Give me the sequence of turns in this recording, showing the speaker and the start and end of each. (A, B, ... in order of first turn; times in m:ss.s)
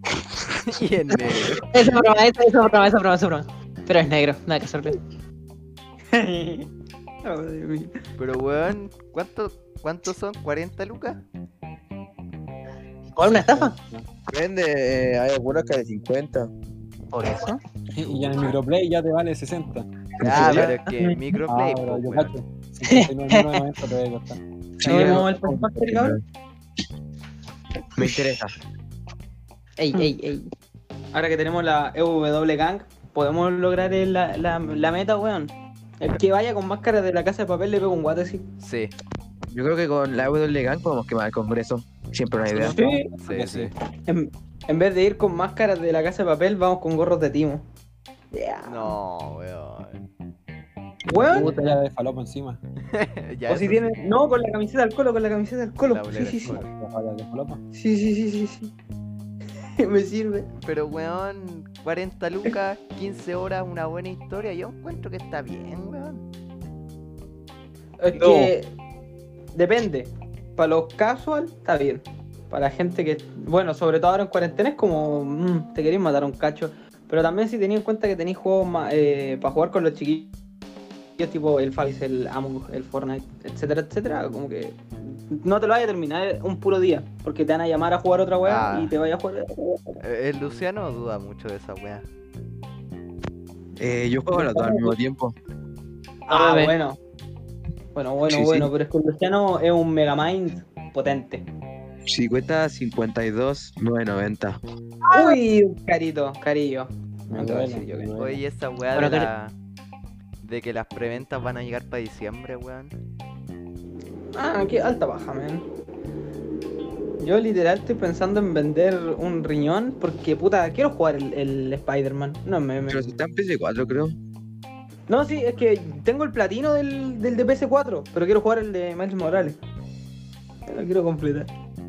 0:00.6-0:01.6 A
0:01.1-0:02.0 B
0:01.7-0:05.0 C
0:06.1-0:06.7 D
0:07.2-0:08.0 D
0:08.2-0:11.2 A
0:13.2-0:13.8 C
0:13.2-0:14.1 E
0:14.3-0:16.5 B
0:17.2-0:17.6 C
0:17.2-0:17.6 D
0:17.9-0:19.9 E
0:20.2-0:20.8 B
0:20.2-0:22.3 A
0:21.5-0:24.4 E
0:22.9-0:23.6 C
0:24.8-0:26.2 B
0:24.8-0:26.2 D
0:24.8-0:25.3 C
0:27.9-0:28.5 B
0:29.8-0:30.5 C
0:31.1-0:38.5 D
0:38.6-0:38.9 A
0:39.5-0:42.8 B
0:42.5-0:43.1 D
0:42.6-0:43.7 E
0:43.2-0:43.7 A
0:44.1-0:47.6 D
0:48.3-0:49.0 D
0:48.6-0:50.0 A
0:51.0-0:51.6 D
0:51.1-0:52.6 E
0:51.3-0:51.7 C
0:52.9-0:54.0 A
0:53.5-0:56.6 D
0:55.8-0:56.7 A
0:56.4-0:57.6 E
0:57.7-0:58.7 D
0:59.8-1:00.5 D
1:00.6-1:06.2 A
1:08.0-1:08.7 D
1:08.2-1:08.5 B
1:09.5-1:20.3 D
1:21.2-1:30.0 D
1:28.4-1:28.9 A
1:30.0-1:32.0 A
1:33.8-1:35.4 B
1:34.3-1:35.0 D
1:36.3-1:37.0 D
1:36.3-1:36.7 C
1:37.9-1:41.4 D
1:38.3-1:38.7 B
1:42.1-1:44.6 B
1:45.0-1:45.4 C
1:45.1-1:48.2 D
1:47.3-1:48.4 E
1:48.2-1:49.5 A
1:48.9-1:49.3 C
1:50.4-1:52.9 A
1:54.3-1:55.6 D
1:57.2-2:03.1 D
2:02.9-2:04.2 B
2:05.1-2:09.6 D
2:10.7-2:11.5 D